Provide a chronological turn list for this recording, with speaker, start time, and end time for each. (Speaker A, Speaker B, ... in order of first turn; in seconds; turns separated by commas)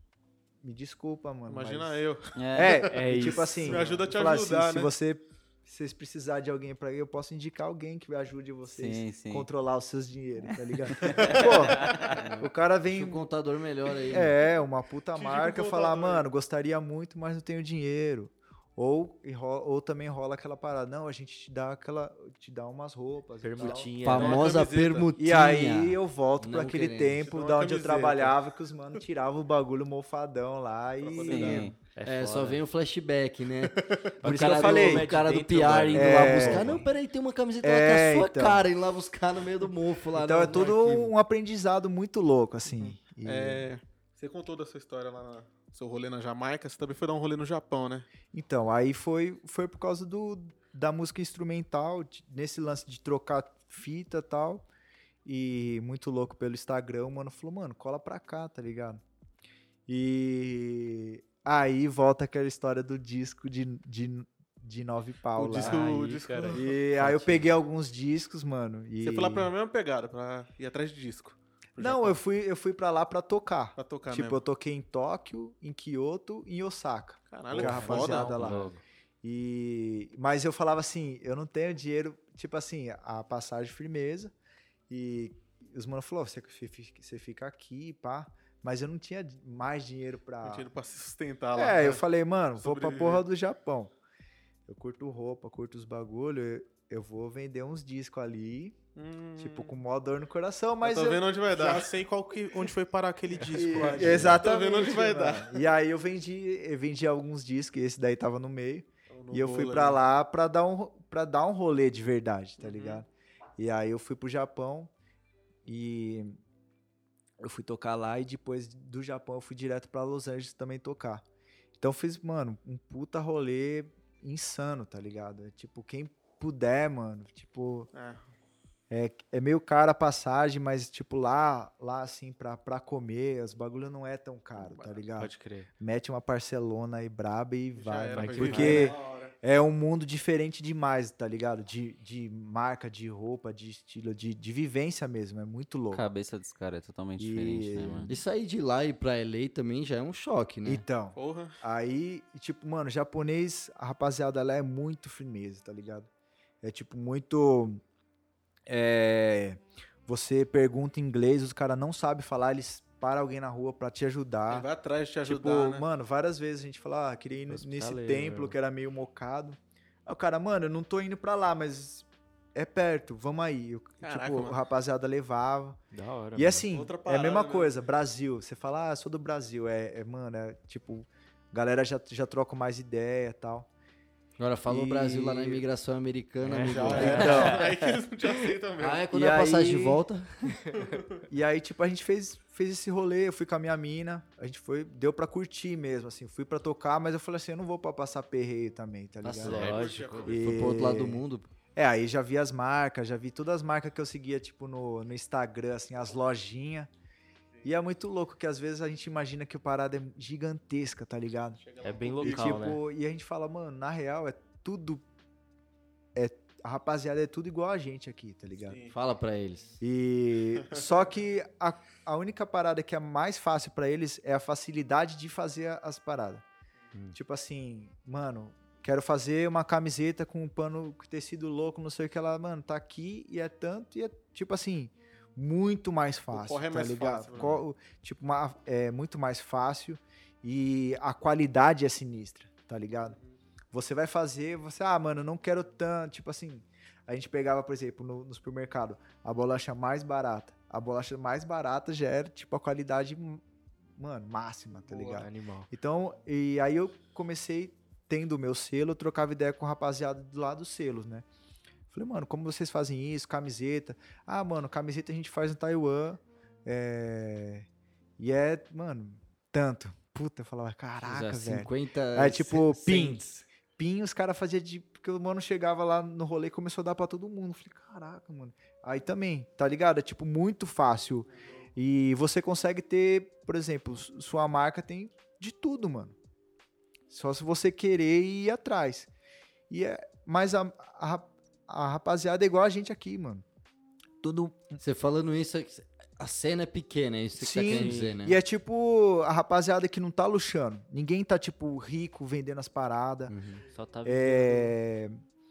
Speaker A: 0.6-13.3, Speaker B: 1.5-4.9, Speaker C: 2.4-2.8, Speaker D: 2.9-4.0, Speaker C: 8.7-9.5, Speaker B: 11.0-11.5, Speaker E: 12.3-14.3, Speaker A: 14.1-23.9, Speaker B: 15.1-16.3, Speaker D: 23.4-24.5, Speaker E: 24.0-27.3, Speaker B: 24.1-25.1, Speaker A: 25.2-31.7, Speaker B: 27.2-28.4, Speaker B: 31.0-31.7, Speaker C: 31.2-31.8, Speaker D: 31.8-32.6, Speaker E: 32.0-41.1, Speaker B: 33.6-34.1, Speaker A: 34.2-35.1, Speaker D: 34.2-36.8, Speaker A: 35.9-36.8, Speaker A: 37.6-38.7, Speaker A: 40.1-43.7, Speaker B: 42.7-48.1, Speaker A: 48.3-54.7, Speaker A: 55.2-59.0, Speaker A: 59.9-69.5, Speaker B: 65.4-66.7, Speaker D: 65.5-67.3, Speaker B: 69.0-72.2, Speaker A: 71.8-78.7, Speaker B: 73.8-74.4, Speaker B: 77.3-78.5, Speaker D: 77.5-78.8, Speaker C: 77.6-78.7, Speaker A: 79.2-84.3, Speaker A: 84.9-90.7, Speaker B: 90.4-92.0, Speaker A: 91.5-93.9, Speaker B: 92.6-93.2, Speaker A: 94.7-98.8, Speaker B: 99.0-99.8, Speaker A: 99.4-101.3, Speaker B: 100.8-101.9, Speaker F: 101.5-104.4, Speaker A: 103.5-114.9, Speaker B: 103.7-105.7, Speaker B: 109.1-110.0, Speaker B: 112.6-113.0, Speaker A: 115.7-116.4, Speaker A: 117.4-121.2, Speaker A: 121.8-127.9, Speaker B: 127.9-128.3, Speaker A: 128.9-146.1, Speaker B: 134.6-135.0, Speaker D: 135.2-135.7, Speaker B: 137.8-139.3, Speaker D: 138.2-138.9, Speaker C: 145.9-148.1, Speaker A: 147.2-148.2, Speaker E: 148.1-150.8, Speaker A: 150.7-156.1, Speaker B: 151.2-151.6, Speaker A: 156.6-157.8, Speaker A: 158.7-164.7, Speaker B: 164.5-165.8, Speaker A: 165.2-175.8, Speaker D: 167.5-168.6, Speaker B: 174.0-174.6, Speaker D: 175.9-176.7, Speaker A: 176.3-183.7, Speaker B: 176.7-177.9, Speaker E: 184.4-187.5, Speaker A: 184.7-185.6, Speaker D: 186.4-187.9, Speaker B: 186.6-189.1, Speaker A: 186.9-187.6, Speaker E: 188.8-190.6, Speaker A: 189.1-190.0, Speaker B: 190.7-191.2, Speaker A: 191.3-199.7, Speaker E: 199.2-201.5, Speaker D: 199.4-200.2, Speaker B: 199.4-200.9, Speaker A: 200.2-201.2, Speaker A: 201.8-206.9, Speaker A: 207.6-211.6, Speaker B: 211.6-212.7, Speaker D: 211.8-212.8, Speaker A: 212.2-215.0, Speaker A: 216.2-218.8, Speaker B: 218.7-218.9, Speaker E: 218.9-219.8, Speaker A: 219.8-226.4, Speaker A: 227.2-243.2, Speaker B: 236.3-237.6, Speaker A: 243.7-253.4, Speaker A: 254.0-261.2, Speaker D: 254.9-255.7, Speaker A: 261.9-267.7, Speaker A: 268.2-286.2, Speaker E: 271.0-273.2, Speaker A: 287.1-289.1, Speaker A: 289.7-293.4, Speaker A: 294.2-294.8, Speaker E: 294.8-298.4, Speaker A: 297.4-303.3, Speaker D: 297.7-298.1, Speaker E: 303.3-303.6, Speaker D: 303.7-304.8, Speaker A: 304.0-305.2